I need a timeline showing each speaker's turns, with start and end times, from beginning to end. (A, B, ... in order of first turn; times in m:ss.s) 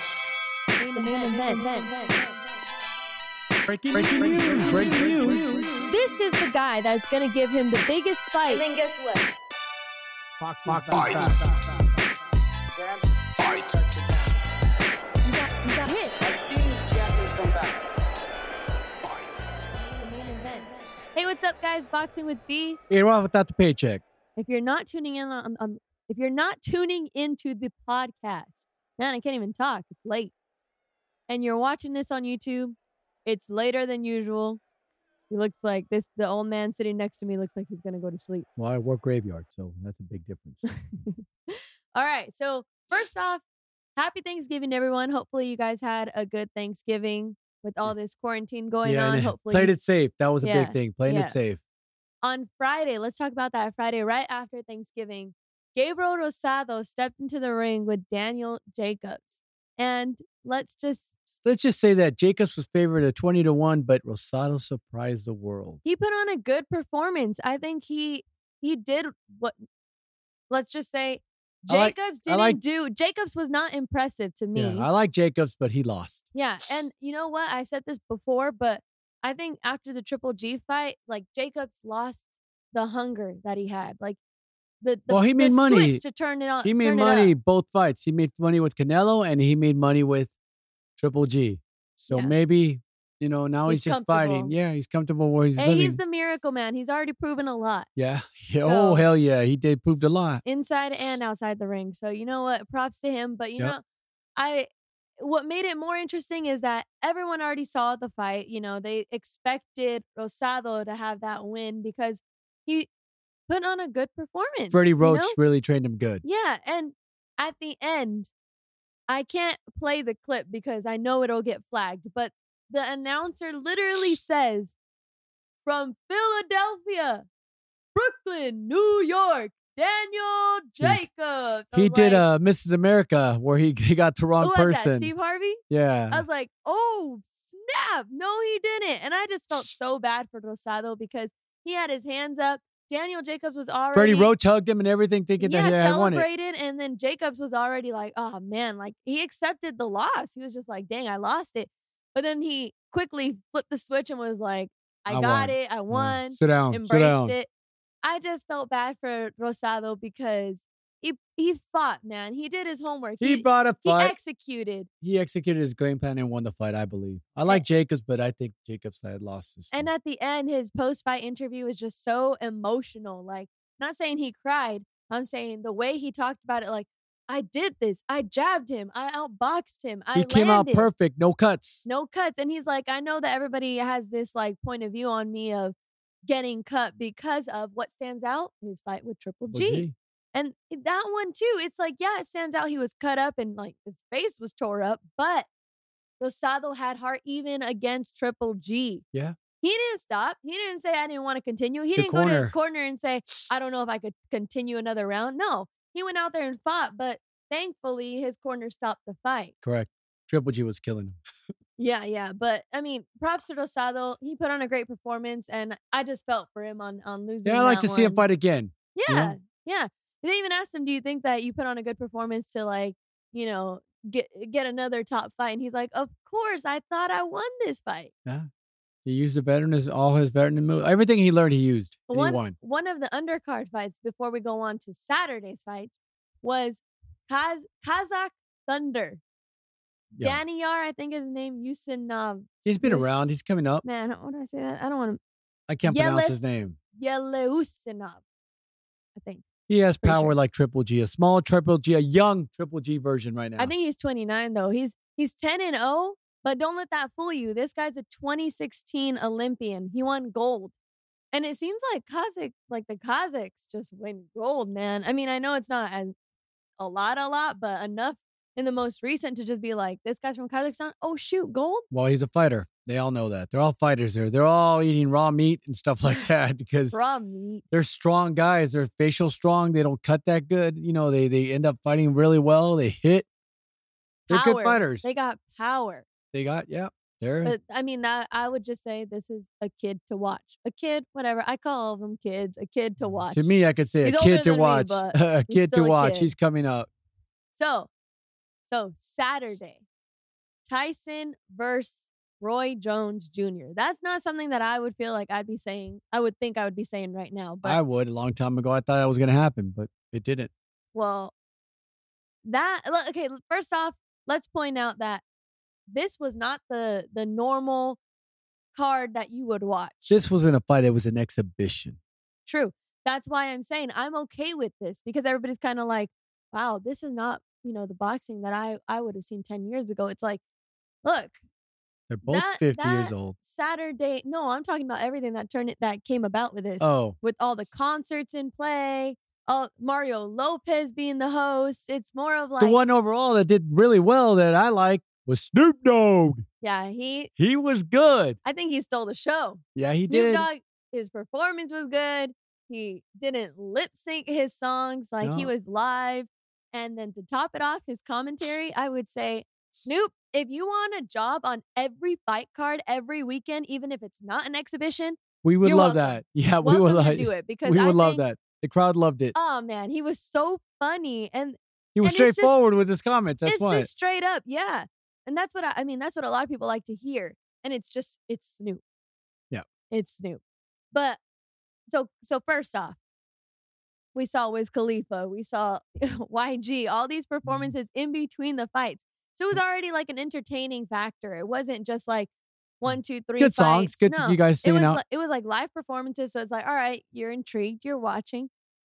0:00.8-0:02.2 A
0:01.1-0:01.5 B
0:03.9-0:05.5 C
0:03.9-0:05.9 B
0:04.2-0:05.3 D
0:05.8-0:08.6 A
0:08.5-0:09.3 B
0:10.6-0:11.3 C
0:10.6-0:11.5 B
0:10.7-0:11.4 D
0:13.3-0:14.2 D
0:15.2-0:16.1 A
0:16.2-0:17.8 D
0:16.3-0:16.6 B
0:20.0-0:22.8 A
0:22.9-0:24.0 C
0:24.4-0:30.3 A
0:31.3-0:34.6 A
0:35.3-0:38.5 A
0:38.6-0:40.6 C
0:40.6-0:43.4 A
0:44.0-0:49.8 A
0:48.8-0:51.6 C
0:50.4-0:51.4 A
0:52.2-1:01.2 A
1:01.4-1:05.8 C
1:05.8-1:09.6 A
1:10.5-1:14.9 A
1:11.7-1:12.6 C
1:14.5-1:16.3 C
1:16.3-1:24.2 A
1:24.8-1:27.3 A
1:25.1-1:26.0 C
1:26.6-1:30.3 C
1:31.0-1:36.0 C
1:32.1-1:32.4 A
1:33.7-1:34.5 A
1:35.6-1:37.9 A
1:38.0-1:40.4 C
1:38.6-1:39.0 A
1:40.4-1:43.8 A
1:44.4-1:52.9 A
1:53.5-1:55.4 A
1:54.7-1:56.2 C
1:56.2-1:58.3 A
1:59.1-2:04.8 A
2:05.6-2:07.2 A
2:07.9-2:12.2 A
2:11.7-2:15.1 C
2:14.4-2:24.3 A
2:15.7-2:16.2 C
2:23.9-2:26.2 C
2:25.4-2:37.5 A
2:35.1-2:37.4 C
2:38.0-2:44.9 A
2:43.2-2:44.1 C
2:45.0-2:49.9 C
2:49.7-3:00.9 A
3:00.1-3:01.8 C
3:01.8-3:15.5 A
3:09.5-3:09.9 C
3:16.2-3:19.0 A
3:19.6-3:29.5 A
3:22.0-3:22.5 C
3:29.6-3:31.2 C
3:31.8-3:38.2 A
3:37.4-3:39.4 C
3:38.9-3:48.1 A
3:49.0-3:52.6 C
3:52.1-3:59.2 A
4:00.1-4:00.4 C
4:00.2-4:05.2 A
4:02.6-4:03.8 C
4:05.7-4:06.8 C
4:05.8-4:08.2 A
4:09.1-4:09.4 A
4:09.7-4:13.7 C
4:10.0-4:10.4 A
4:13.6-4:20.7 A
4:21.3-4:26.1 A
4:26.8-4:31.8 A
4:31.9-4:37.0 C
4:36.9-4:37.6 A
4:37.7-4:43.3 C
4:44.3-4:45.0 C
4:44.3-4:46.1 A
4:46.3-4:47.5 C
4:47.4-4:53.5 A
4:53.3-4:56.9 C
4:54.0-4:56.3 A
4:57.6-4:57.9 A
4:58.7-4:59.8 A
5:00.6-5:07.8 A
5:07.6-5:10.5 C
5:10.9-5:11.3 A
5:12.4-5:15.2 A
5:15.9-5:18.0 A
5:18.7-5:20.2 A
5:20.1-5:22.0 C
5:22.4-5:30.4 A
5:31.0-5:31.4 A
5:32.1-5:33.4 C
5:32.2-5:42.8 A
5:36.8-5:37.2 C
5:42.6-5:46.4 C
5:46.6-5:47.3 A
5:47.4-5:48.4 C
5:48.4-6:08.2 A
5:49.7-5:50.5 C
5:55.2-5:55.5 C
6:05.4-6:09.3 C
6:09.3-6:12.6 A
6:12.0-6:13.9 C
6:13.4-6:18.8 A
6:19.9-6:21.2 A
6:21.9-6:23.0 A
6:24.1-6:38.5 A
6:32.9-6:35.0 C